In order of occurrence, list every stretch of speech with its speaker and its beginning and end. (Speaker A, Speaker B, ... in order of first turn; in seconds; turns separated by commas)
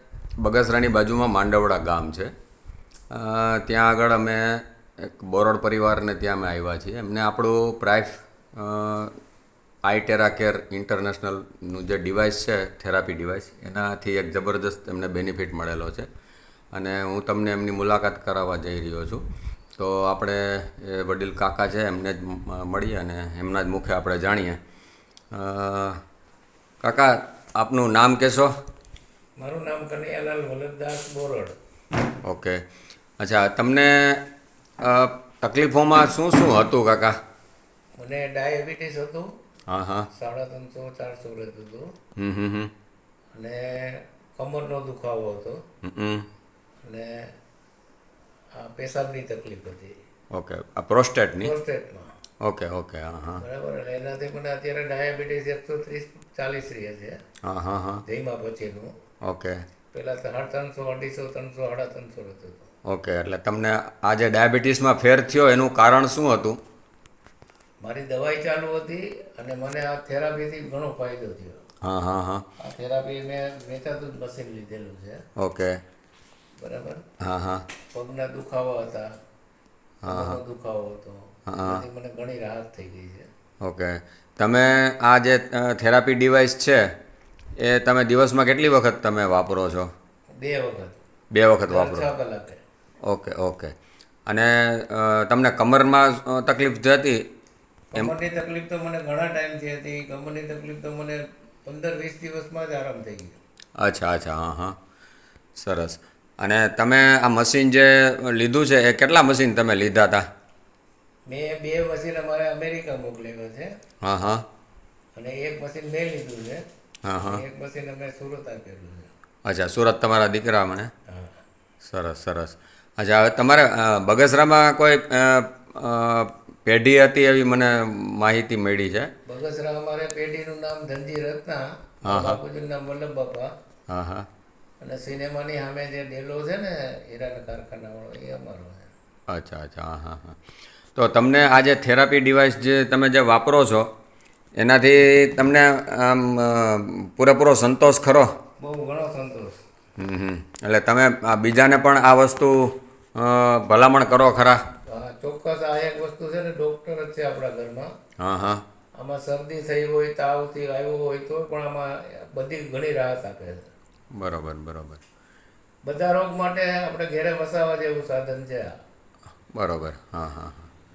Speaker A: 0.4-2.3, Speaker A: 3.1-9.1, Speaker A: 9.8-16.1, Speaker A: 16.7-19.2, Speaker A: 19.8-24.6, Speaker A: 25.3-26.0, Speaker A: 26.8-28.5, Speaker B: 29.4-31.6, Speaker A: 32.2-32.6, Speaker A: 33.2-34.2, Speaker A: 34.8-37.2, Speaker B: 38.0-39.3, Speaker A: 39.7-40.1, Speaker B: 40.2-41.9, Speaker A: 42.2-42.7, Speaker B: 43.4-45.6, Speaker A: 45.8-46.2, Speaker B: 46.9-47.3, Speaker B: 48.6-50.0, Speaker A: 50.3-51.5, Speaker B: 51.4-52.1, Speaker A: 52.4-53.4, Speaker B: 53.4-57.2, Speaker A: 57.4-58.0, Speaker B: 58.1-58.9, Speaker A: 59.2-59.6, Speaker B: 59.9-62.7, Speaker A: 62.9-66.6, Speaker B: 67.8-71.6, Speaker A: 71.8-72.4, Speaker B: 72.6-75.2, Speaker A: 75.4-75.8, Speaker B: 76.6-77.0, Speaker A: 77.2-77.6, Speaker B: 77.9-79.1, Speaker A: 80.0-80.4, Speaker B: 80.1-83.3, Speaker A: 81.5-81.8, Speaker A: 83.6-86.8, Speaker A: 87.6-89.9, Speaker B: 90.4-91.0, Speaker A: 91.3-92.1, Speaker B: 91.7-92.6, Speaker A: 93.1-93.7, Speaker A: 94.3-97.2, Speaker B: 97.9-103.4, Speaker A: 103.8-104.8, Speaker A: 105.6-110.2, Speaker B: 111.3-113.7, Speaker A: 114.0-114.4, Speaker B: 115.2-116.6, Speaker A: 117.0-117.4, Speaker B: 117.2-119.1, Speaker A: 119.5-120.9, Speaker A: 121.8-129.1, Speaker B: 129.3-133.5, Speaker A: 132.1-132.4, Speaker A: 133.9-134.3, Speaker B: 134.8-138.9, Speaker A: 139.3-140.4, Speaker A: 141.0-143.9, Speaker A: 144.6-148.3, Speaker B: 148.6-149.6, Speaker A: 150.0-154.6, Speaker B: 154.9-157.9, Speaker A: 158.2-158.6, Speaker B: 159.0-163.7, Speaker A: 164.2-165.0, Speaker B: 165.9-168.7, Speaker A: 169.6-170.7